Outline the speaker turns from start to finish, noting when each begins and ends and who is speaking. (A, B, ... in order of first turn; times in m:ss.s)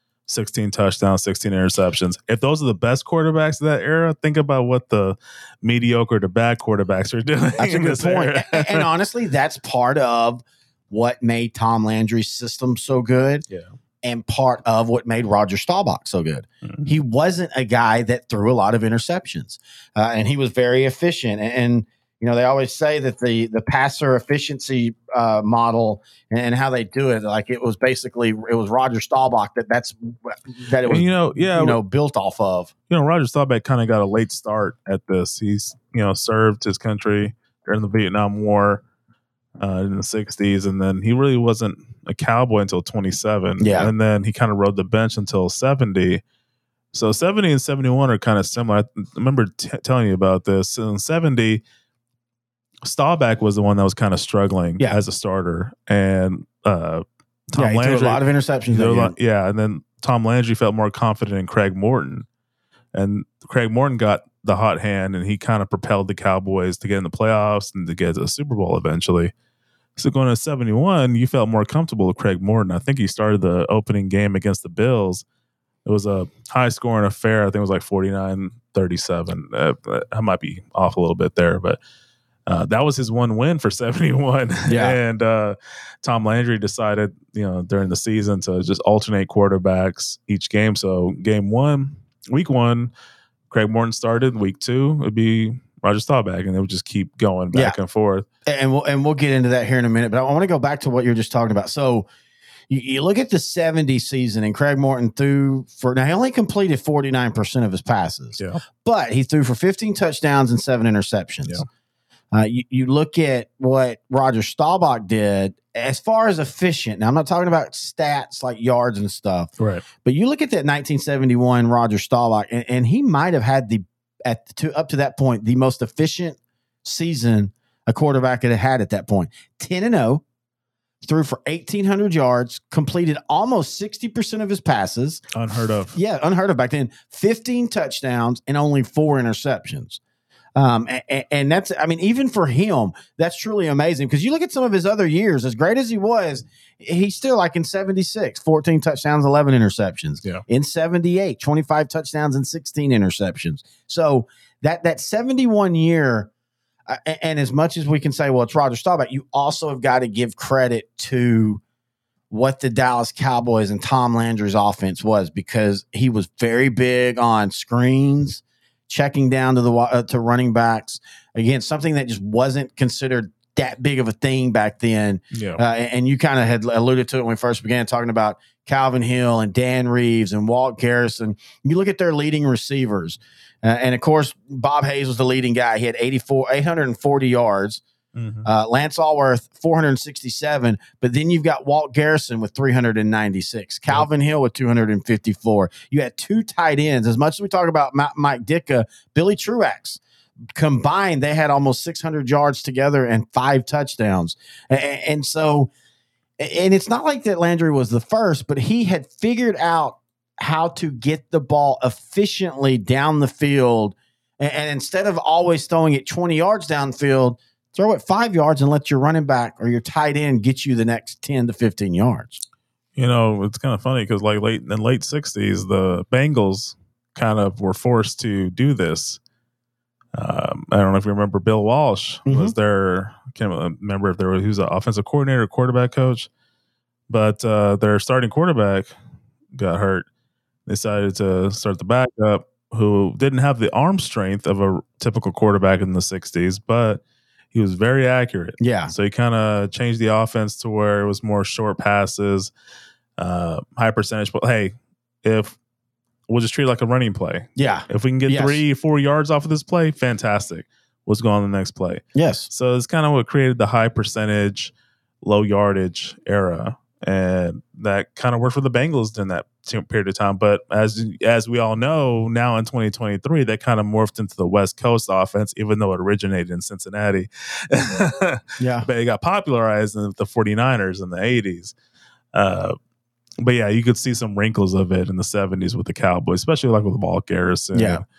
0:00.3-0:08.9 A
0:07.6-0:13.5 B
0:14.0-0:32.7 B
0:30.8-0:31.8 A
0:32.9-0:38.8 A
0:39.6-0:46.2 A
0:43.6-0:43.9 B
0:46.9-0:51.6 A
0:52.8-1:02.3 A
0:57.6-0:59.1 B
1:02.9-1:09.3 A
1:10.0-1:15.2 A
1:15.8-1:21.8 A
1:22.5-1:32.9 A
1:24.7-1:25.0 B
1:33.5-1:38.3 A
1:38.5-1:42.1 B
1:42.7-1:51.6 B
1:52.3-1:59.5 B
1:59.6-1:59.8 A
2:00.0-2:10.2 B
2:11.0-2:15.2 B
2:15.3-2:16.0 A
2:15.9-2:20.0 B
2:20.6-2:36.3 B
2:36.9-2:41.6 B
2:42.3-3:07.8 B
2:55.3-2:55.6 A
3:08.2-3:08.5 A
3:08.4-3:20.0 B
3:20.6-3:25.7 B
3:26.4-3:42.4 B
3:43.0-3:49.2 A
3:50.2-3:56.3 A
3:52.3-3:52.6 B
3:57.1-3:59.0 A
3:59.5-4:00.1 A
4:00.7-4:07.0 A
4:07.5-4:12.5 A
4:08.6-4:08.9 B
4:13.2-4:15.6 A
4:16.3-4:41.7 A
4:17.6-4:18.6 B
4:22.2-4:22.5 B
4:38.6-4:38.9 B
4:42.3-4:42.8 A
4:43.4-4:48.0 A
4:47.7-4:48.0 B